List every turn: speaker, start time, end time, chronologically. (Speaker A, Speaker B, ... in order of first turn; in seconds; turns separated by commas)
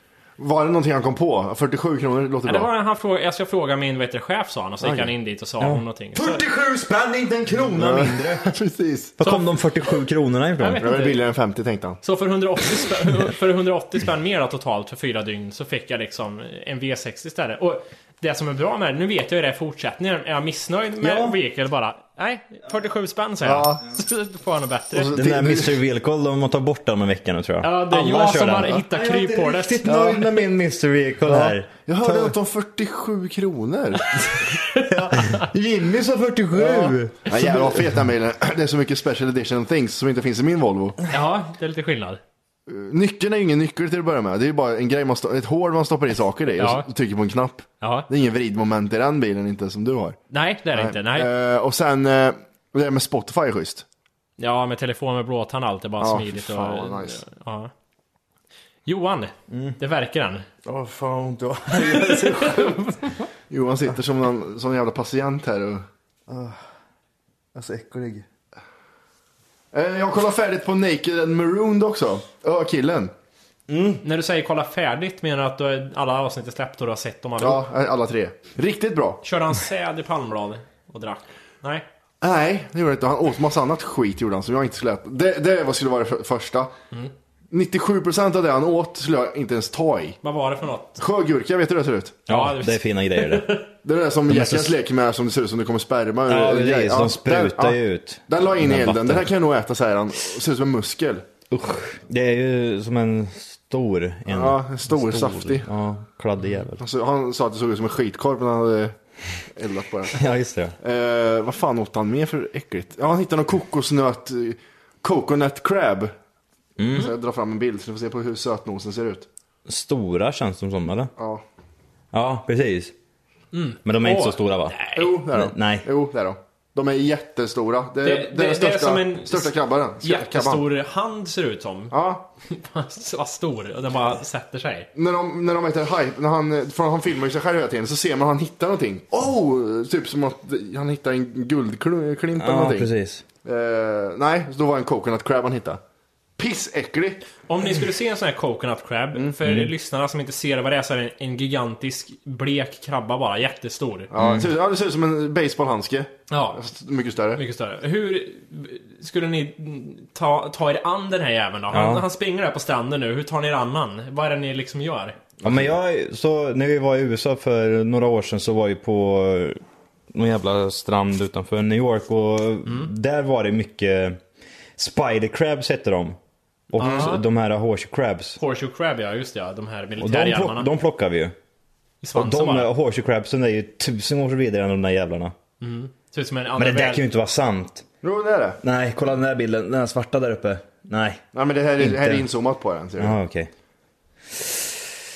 Speaker A: 0.4-2.7, Speaker B: 2.5-6.4, Speaker A: 4.8-5.1, Speaker C: 5.6-8.5, Speaker A: 7.7-9.2, Speaker C: 9.2-10.9, Speaker B: 10.6-11.2, Speaker A: 10.8-12.0, Speaker B: 12.0-25.1, Speaker C: 21.0-21.4, Speaker A: 23.4-23.8, Speaker A: 24.9-25.8, Speaker C: 25.1-32.4, Speaker B: 27.6-30.1, Speaker A: 29.9-30.2, Speaker A: 31.3-34.3, Speaker B: 34.8-35.4, Speaker C: 34.8-38.0, Speaker A: 36.6-41.0, Speaker B: 41.1-42.2, Speaker A: 42.7-50.2, Speaker B: 46.6-46.9, Speaker B: 47.8-48.1, Speaker B: 50.3-51.3, Speaker A: 50.7-53.9, Speaker B: 54.4-57.7, Speaker A: 56.0-57.2, Speaker B: 58.9-60.5, Speaker C: 59.5-59.8, Speaker C: 60.6-63.1, Speaker B: 61.8-63.0, Speaker A: 63.5-65.9, Speaker C: 66.3-66.6, Speaker C: 67.5-68.2, Speaker A: 69.7-73.1, Speaker C: 73.7-74.0, Speaker B: 74.0-77.7, Speaker A: 77.4-79.2, Speaker B: 79.2-81.8, Speaker A: 82.2-86.7, Speaker A: 87.5-90.2, Speaker B: 90.2-91.0, Speaker A: 91.0-92.2, Speaker C: 92.3-93.6, Speaker B: 92.3-93.7, Speaker A: 93.8-101.3, Speaker C: 94.3-94.8, Speaker C: 96.3-99.3, Speaker C: 101.5-106.8, Speaker A: 104.3-105.7, Speaker A: 106.8-109.0, Speaker A: 109.5-110.2, Speaker C: 110.2-110.8, Speaker A: 110.8-116.1, Speaker C: 116.8-117.1, Speaker A: 116.9-119.3, Speaker C: 119.7-121.1, Speaker A: 121.2-121.4, Speaker C: 122.1-122.9, Speaker B: 123.5-125.2, Speaker C: 123.8-125.9, Speaker A: 125.0-130.7, Speaker B: 128.0-131.9, Speaker A: 131.9-132.2, Speaker B: 132.5-134.9, Speaker A: 134.9-142.9, Speaker C: 142.4-143.2, Speaker A: 143.4-145.8, Speaker A: 146.4-147.3, Speaker B: 147.5-154.1, Speaker C: 149.4-149.7, Speaker A: 154.1-157.4, Speaker C: 154.2-154.5, Speaker B: 156.3-156.6, Speaker B: 157.3-165.2, Speaker C: 161.7-162.1, Speaker A: 165.4-165.7, Speaker C: 165.4-169.6, Speaker C: 170.1-174.2, Speaker C: 174.8-176.2, Speaker C: 176.7-178.4, Speaker B: 176.8-177.2, Speaker A: 176.8-177.1, Speaker B: 178.4-180.7, Speaker C: 180.0-181.3, Speaker B: 182.0-182.7, Speaker C: 182.1-185.3, Speaker B: 185.6-187.0, Speaker C: 186.6-187.8, Speaker A: 188.0-188.6, Speaker C: 188.6-191.2, Speaker A: 191.3-193.2, Speaker C: 191.8-192.3, Speaker C: 193.0-193.5